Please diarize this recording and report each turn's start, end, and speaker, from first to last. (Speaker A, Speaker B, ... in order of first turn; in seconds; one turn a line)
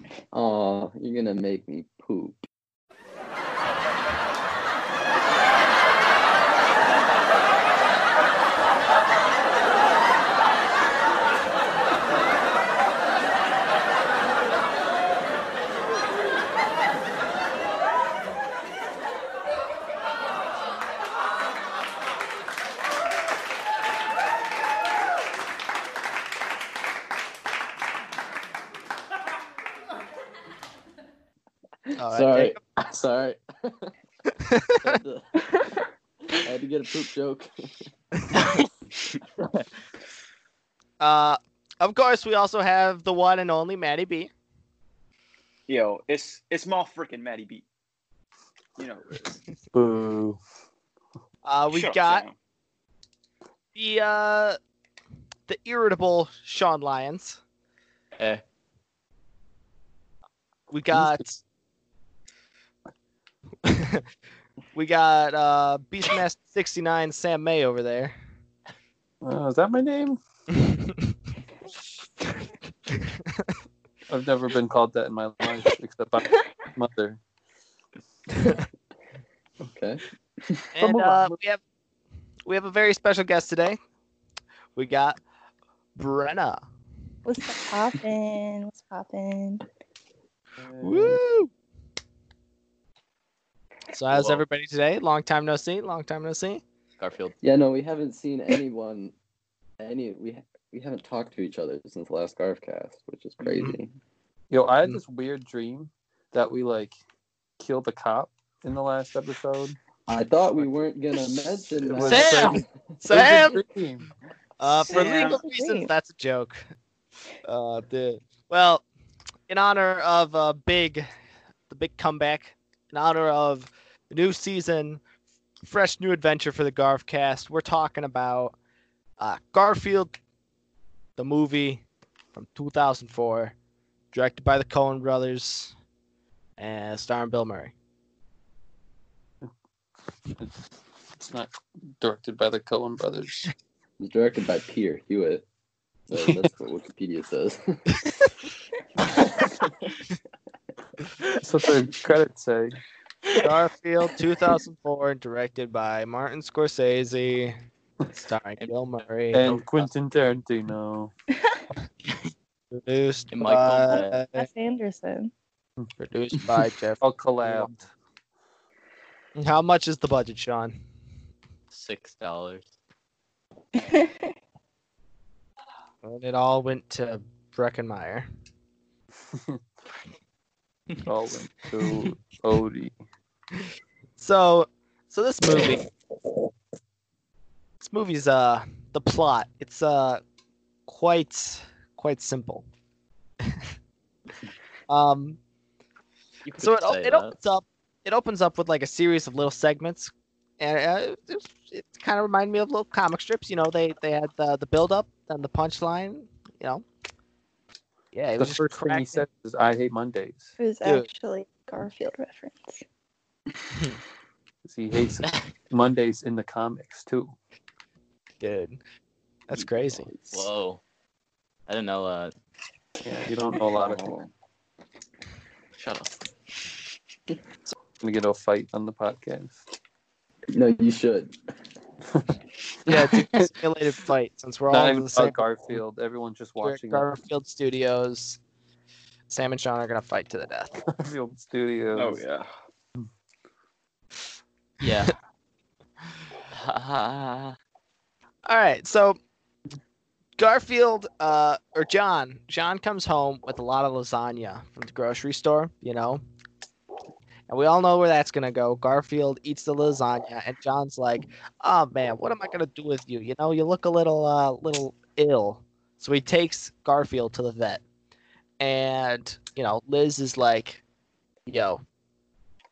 Speaker A: 0.3-2.4
Speaker A: 31.9-33.9
Speaker B: 32.0-32.6
Speaker B: 34.4-35.0
Speaker A: 34.8-35.5
Speaker A: 36.3-37.5
Speaker C: 38.3-38.7
Speaker B: 41.0-44.3
Speaker D: 45.7-47.6
Speaker D: 48.8-49.4
Speaker E: 49.7-50.4
Speaker B: 51.4-52.2
Speaker D: 51.7-52.3
Speaker B: 53.7-54.6
Speaker B: 55.5-57.4
Speaker B: 60.7-61.4
Speaker E: 60.9-61.2
Speaker B: 63.6-64.0
Speaker B: 64.7-68.1
Speaker E: 69.2-70.2
Speaker B: 70.5-71.0
Speaker E: 74.1-77.2
Speaker A: 79.6-80.7
Speaker B: 80.7-81.6
Speaker E: 80.8-81.4
Speaker B: 82.5-83.8
Speaker B: 84.8-85.2
Speaker B: 86.0-86.6
Speaker F: 87.2-89.6
Speaker E: 90.6-91.1
Speaker B: 90.8-91.5
Speaker B: 93.9-96.6
Speaker C: 94.1-94.4
Speaker C: 97.0-97.3
Speaker A: 97.4-99.1
Speaker A: 99.8-103.9
Speaker D: 103.4-103.8
Speaker E: 104.5-107.0
Speaker E: 107.6-109.8
Speaker A: 110.1-112.6
Speaker E: 111.8-114.0
Speaker C: 112.0-112.6
Speaker B: 113.0-113.6
Speaker B: 114.6-116.6
Speaker D: 114.9-115.4
Speaker F: 114.9-115.9
Speaker B: 117.4-118.8
Speaker B: 119.5-121.1
Speaker B: 121.7-125.0
Speaker B: 125.6-128.6
Speaker B: 129.2-130.2
Speaker B: 131.2-133.5
Speaker B: 134.1-135.7
Speaker B: 136.6-137.7
Speaker E: 141.2-143.5
Speaker A: 144.0-145.4
Speaker A: 146.1-148.1
Speaker E: 151.4-152.8
Speaker B: 153.3-157.6
Speaker B: 158.1-159.6
Speaker C: 159.3-159.9
Speaker E: 159.3-161.1
Speaker B: 162.7-164.5
Speaker C: 163.3-164.2
Speaker F: 164.2-165.3
Speaker B: 166.0-167.8
Speaker E: 167.0-167.8
Speaker B: 169.3-170.8
Speaker C: 171.7-172.7
Speaker F: 173.8-174.3
Speaker B: 176.0-178.3
Speaker E: 179.3-179.6
Speaker E: 181.0-182.9
Speaker B: 184.2-185.8
Speaker B: 187.8-190.2
Speaker B: 190.9-192.7
Speaker B: 194.9-195.4
Speaker C: 196.4-197.3
Speaker B: 196.6-206.8
Speaker B: 208.1-209.2
Speaker E: 208.4-210.5
Speaker F: 210.6-212.8
Speaker E: 214.6-217.3
Speaker B: 218.4-218.8
Speaker B: 219.5-220.1
Speaker A: 220.1-220.3
Speaker C: 220.3-220.8
Speaker C: 221.7-222.3
Speaker E: 223.0-224.1
Speaker D: 223.8-224.3
Speaker C: 225.8-226.2
Speaker E: 228.0-229.6
Speaker A: 230.5-231.3
Speaker B: 232.9-235.8
Speaker E: 234.7-237.2
Speaker B: 236.6-238.4
Speaker B: 239.3-240.8
Speaker E: 240.9-242.2
Speaker D: 241.9-242.5
Speaker C: 244.8-245.1
Speaker B: 244.8-245.1
Speaker C: 246.5-247.5
Speaker B: 248.4-249.2
Speaker B: 250.4-256.2
Speaker B: 257.5-267.8
Speaker B: 268.6-270.8
Speaker B: 271.5-271.8